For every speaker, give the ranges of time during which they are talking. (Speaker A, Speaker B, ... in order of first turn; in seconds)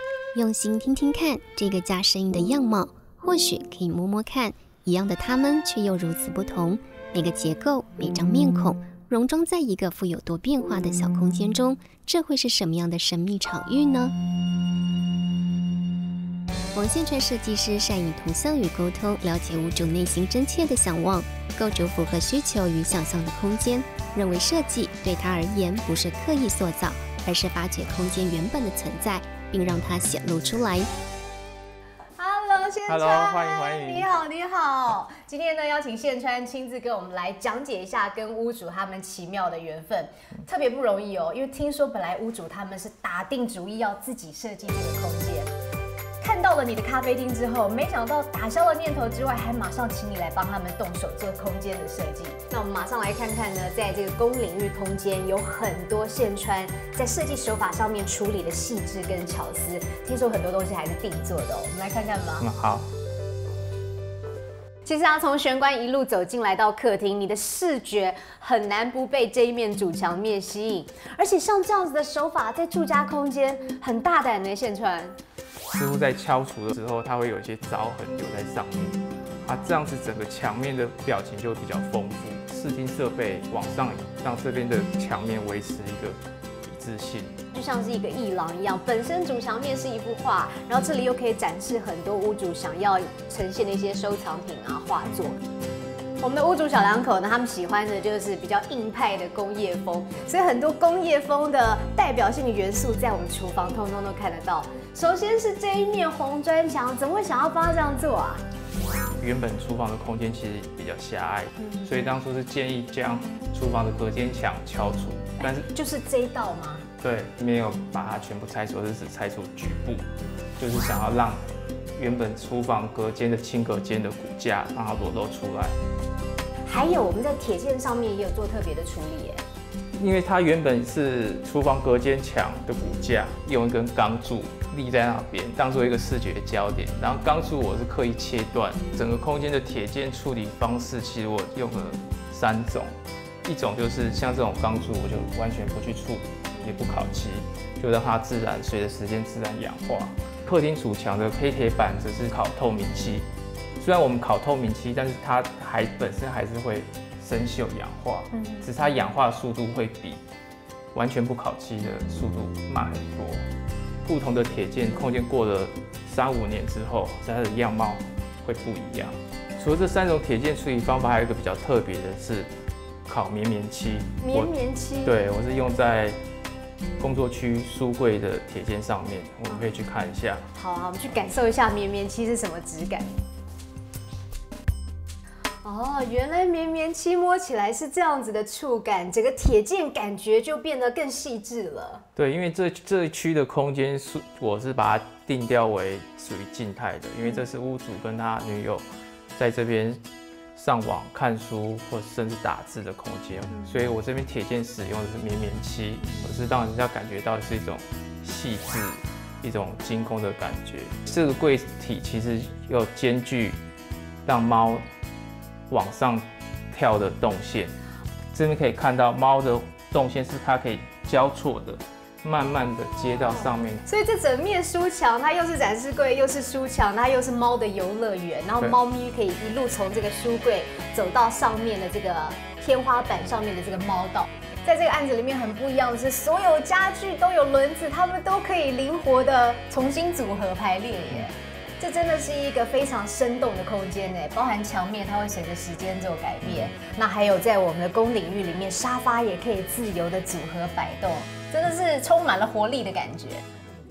Speaker A: 0.3-14.1, 16.7-30.9
Speaker B: 32.2-45.5, 46.2-62.5, 64.8-75.2, 87.5-95.4, 96.2-108.4, 111.6-112.0, 115.4-116.9, 126.7-129.4, 158.3-158.7, 174.2-175.2, 180.5-183.2, 185.6-192.0, 203.5-203.9, 206.0-206.3, 223.2-253.4
Speaker C: 32.9-34.1, 62.4-62.9, 75.7-87.4, 109.2-115.7, 117.0-120.1, 120.6-121.4, 122.0-125.8, 130.0-142.9, 143.4-153.2, 153.8-160.2, 160.9-163.4, 164.1-172.5, 173.1-174.5, 175.0-176.2, 177.0-180.4, 192.2-198.8, 199.3-200.0, 200.6-213.6, 214.2-214.8, 215.7-217.7, 218.3-223.8, 246.4-246.7